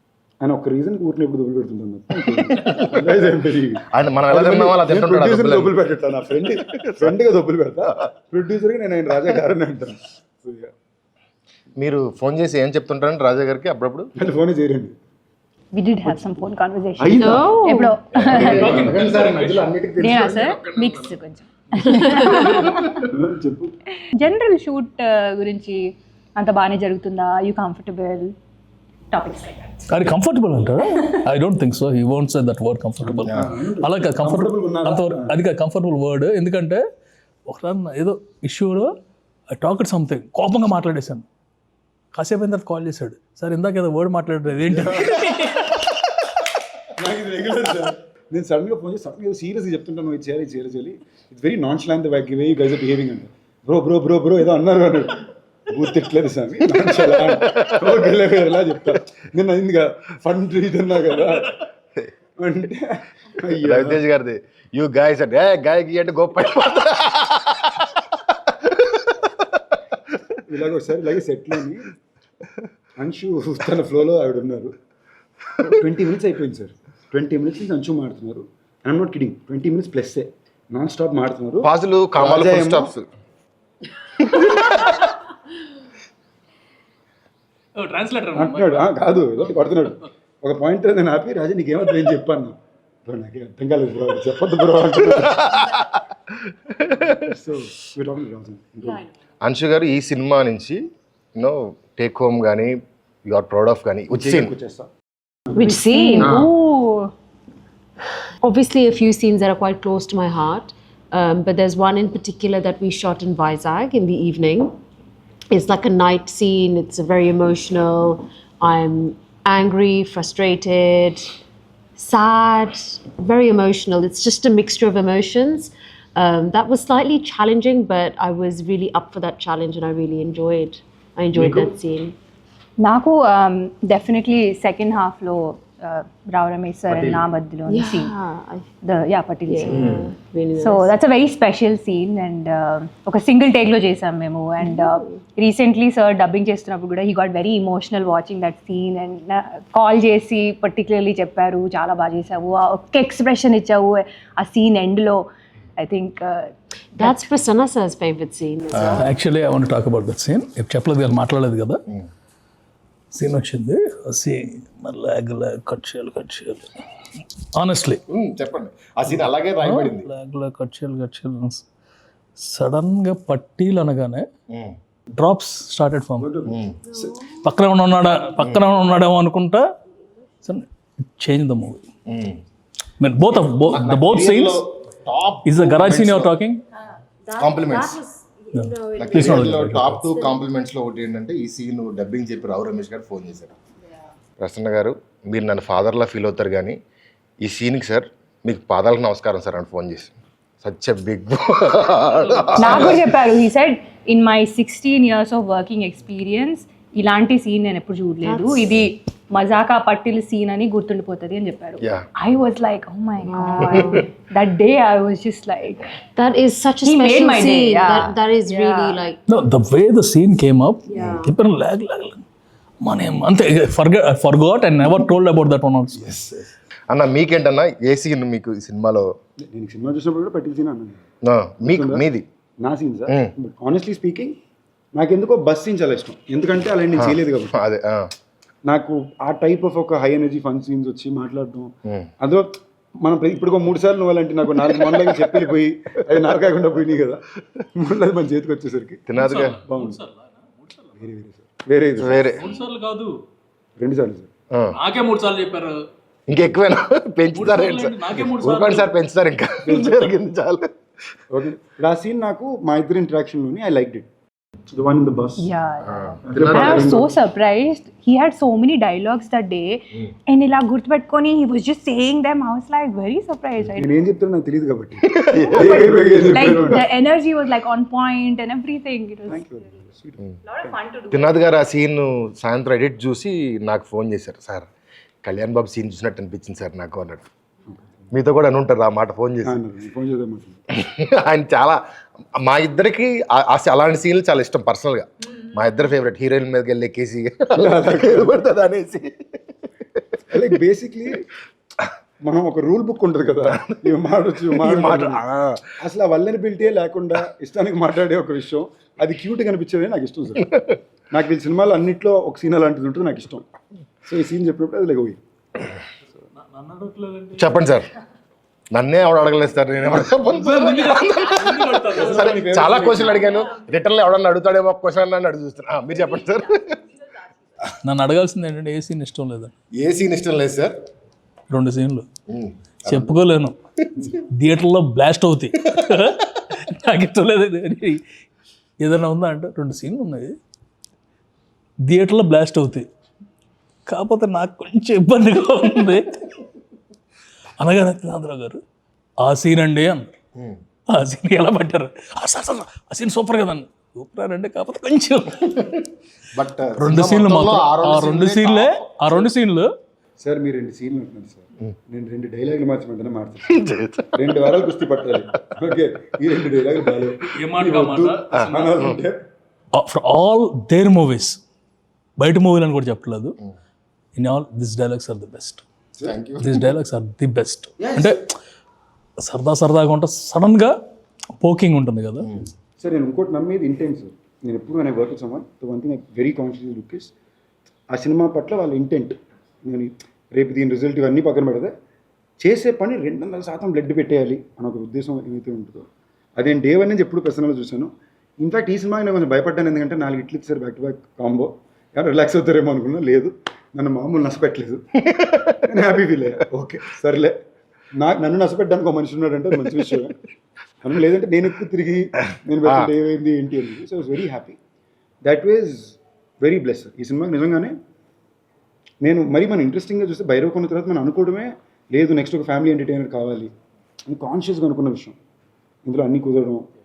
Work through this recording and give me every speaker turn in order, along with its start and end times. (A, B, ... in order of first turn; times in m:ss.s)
0:00.4-0:10.7 A
0:02.4-0:03.0 B
0:03.9-0:05.8 B
0:06.8-0:07.1 B
0:11.8-0:14.1 B
0:14.2-0:15.0 A
0:15.7-0:18.6 C
0:16.0-0:16.3 A
0:17.0-0:17.6 A
0:17.2-0:18.0 D
0:18.1-0:21.2 B
0:18.2-0:19.6 A
0:18.6-0:19.6 E
0:20.0-0:23.0 C
0:21.9-0:22.5 D
0:22.0-0:23.1 B
0:23.1-0:23.8 A
0:24.1-0:28.3 C
0:29.1-0:29.9 C
0:29.9-0:36.8 E
0:33.0-0:35.4 A
0:37.5-0:39.0 E
0:39.5-0:41.3 E
0:42.1-0:45.8 E
0:44.7-0:45.2 A
0:47.0-1:01.6 A
0:57.0-0:57.8 B
1:02.4-1:04.0 A
1:03.6-1:08.1 B
1:08.6-1:09.3 B
1:10.5-1:11.8 A
1:13.0-1:14.7 A
1:15.6-1:22.9 A
1:21.6-1:23.1 B
1:24.3-1:24.9 B
1:27.8-1:28.9 E
1:28.3-1:35.6 A
1:35.2-1:35.9 B
1:36.7-1:37.2 B
1:37.2-1:39.0 A
1:39.5-1:40.8 B
1:41.4-1:44.5 B
1:44.1-1:44.9 A
1:45.5-1:46.4 D
1:45.6-1:47.1 C
1:46.2-1:46.5 B
1:48.4-1:54.8 D
1:55.5-2:01.4 D
2:02.0-2:12.2 D
2:11.3-2:11.7 B
2:12.8-2:18.2 C
2:16.9-2:17.2 B
2:17.7-2:18.7 D
2:18.8-2:20.0 C
2:19.5-2:20.9 D
2:19.7-2:20.1 B
2:20.6-2:37.2 C
2:24.6-2:25.2 D
2:37.0-2:39.2 D
2:38.8-2:39.0 B
2:39.0-2:41.8 E
2:43.1-2:46.7 E
2:47.6-2:48.0 E
2:48.1-2:50.1 B
2:49.6-2:51.6 E
2:52.4-2:54.3 E
2:54.5-2:54.8 B
2:55.1-2:56.3 E
2:56.2-2:57.1 A
2:56.5-2:56.8 B
2:56.9-2:57.4 D
2:57.4-2:59.7 E
3:00.4-3:01.8 E
3:02.1-3:02.4 B
3:03.0-3:04.6 E
3:03.7-3:06.3 B
3:05.4-3:06.6 E
3:07.3-3:10.4 D
3:07.3-3:08.0 B
3:08.6-3:10.0 E
3:09.0-3:13.5 B
3:14.4-3:16.8 B
3:17.4-3:23.1 B
3:22.6-3:35.8 C
3:28.2-3:28.8 D
3:31.8-3:32.1 B
3:33.2-3:34.1 D
3:36.2-3:39.2 D
3:36.8-3:39.1 C
3:39.3-3:42.2 E
3:40.9-3:41.3 D
3:42.8-3:46.1 E
3:46.0-3:46.5 A
3:46.9-3:49.1 B
3:49.4-3:51.0 A
3:51.2-3:52.2 B
3:51.7-3:52.0 A
3:52.6-3:54.4 A
3:55.0-3:57.6 A
3:57.0-3:58.1 B
3:58.7-4:02.5 A
4:01.9-4:02.1 B
4:03.0-4:07.2 A
4:04.8-4:05.3 B
4:07.8-4:09.0 A
4:09.1-4:09.6 B
4:09.2-4:11.1 E
4:09.7-4:10.0 A
4:11.0-4:12.3 A
4:12.0-4:12.4 B
4:12.3-4:13.1 E
4:13.8-4:14.3 A
4:14.8-4:15.8 E
4:16.3-4:20.7 B
4:17.3-4:18.9 E
4:21.3-4:24.1 A
4:24.7-4:25.5 A
4:25.4-4:33.9 C
4:25.8-4:27.0 B
4:26.2-4:27.1 A
4:33.8-4:36.9 A
4:35.1-4:36.6 B
4:35.4-4:39.6 C
4:39.3-4:40.7 A
4:40.4-4:41.4 C
4:41.1-4:44.7 B
4:45.2-4:47.2 B
4:48.1-4:49.6 B
4:49.4-4:50.6 A
4:50.7-4:51.8 B
4:52.4-4:59.3 B
4:57.5-4:58.4 A
5:00.3-5:01.2 A
5:02.2-5:05.2 A
5:03.5-5:03.8 B
5:04.5-5:05.8 B
5:05.8-5:10.5 A
5:10.4-5:10.8 B
5:11.1-5:13.5 A
5:14.1-5:15.2 A
5:16.4-5:17.6 E
5:17.4-5:17.9 B
5:18.7-5:26.8 B
5:20.3-5:22.5 E
5:22.0-5:23.4 A
5:27.8-5:29.5 E
5:29.7-5:30.8 B
5:31.5-5:32.1 E
5:32.3-5:33.2 B
5:32.9-5:33.6 E
5:34.1-5:38.0 E
5:38.8-5:40.4 E
5:41.9-5:42.9 E
5:43.9-5:46.3 E
5:47.6-5:48.6 E
5:49.2-5:50.2 E
5:50.9-5:55.6 E
5:55.5-5:55.8 B
5:56.4-5:59.3 B
5:56.8-5:59.7 E
6:00.2-6:03.6 A
6:03.5-6:04.2 B
6:04.2-6:09.2 A
6:07.3-6:08.9 E
6:09.8-6:11.4 E
6:12.2-6:13.4 E
6:14.2-6:15.6 E
6:16.0-6:16.5 B
6:16.4-6:18.3 E
6:17.8-6:18.2 A
6:19.2-6:20.7 E
6:21.4-6:22.3 E
6:22.8-6:27.1 A
6:27.9-6:31.7 A
6:32.4-6:44.8 A
6:45.1-6:45.7 B
6:45.6-6:47.4 A
6:48.0-6:50.2 A
6:50.8-6:54.6 A
6:55.2-6:57.8 A
6:59.0-7:03.5 A
7:04.1-7:05.2 A
7:05.9-7:06.7 A